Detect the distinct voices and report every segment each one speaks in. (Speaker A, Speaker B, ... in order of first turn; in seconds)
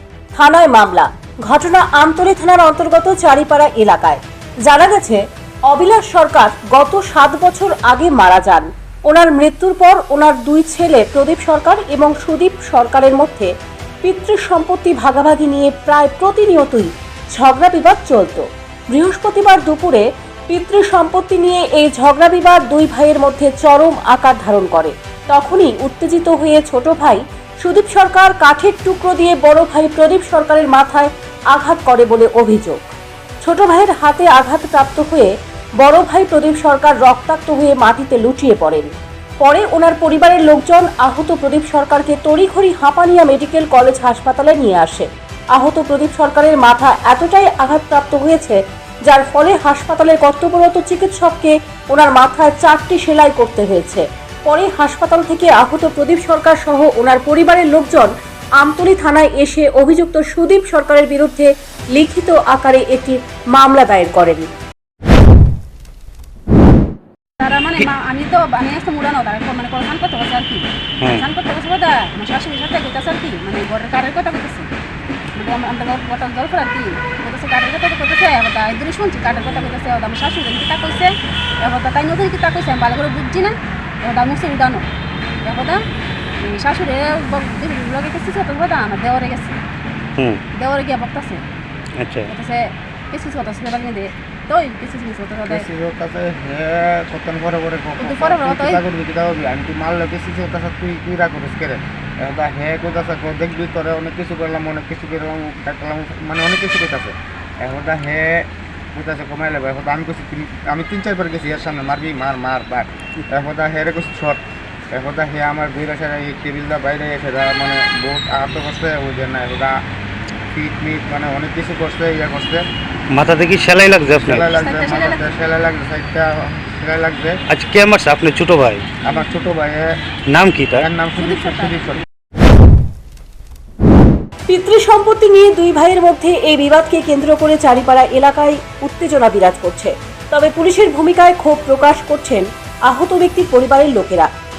Speaker A: 0.3-13.5, 14.0-32.8, 33.4-64.5, 134.5-144.3
Speaker B: 67.4-74.7, 75.3-84.8, 85.4-85.8, 86.4-89.6, 90.5-91.4, 92.3-95.7, 98.0-98.8, 124.5-125.2, 131.2-131.8
Speaker C: 90.2-90.4, 92.0-92.3, 123.1-124.5, 127.5-128.9, 130.3-130.9
Speaker D: 95.5-119.8, 120.5-122.7, 124.2-127.4, 129.0-130.0, 130.8-132.0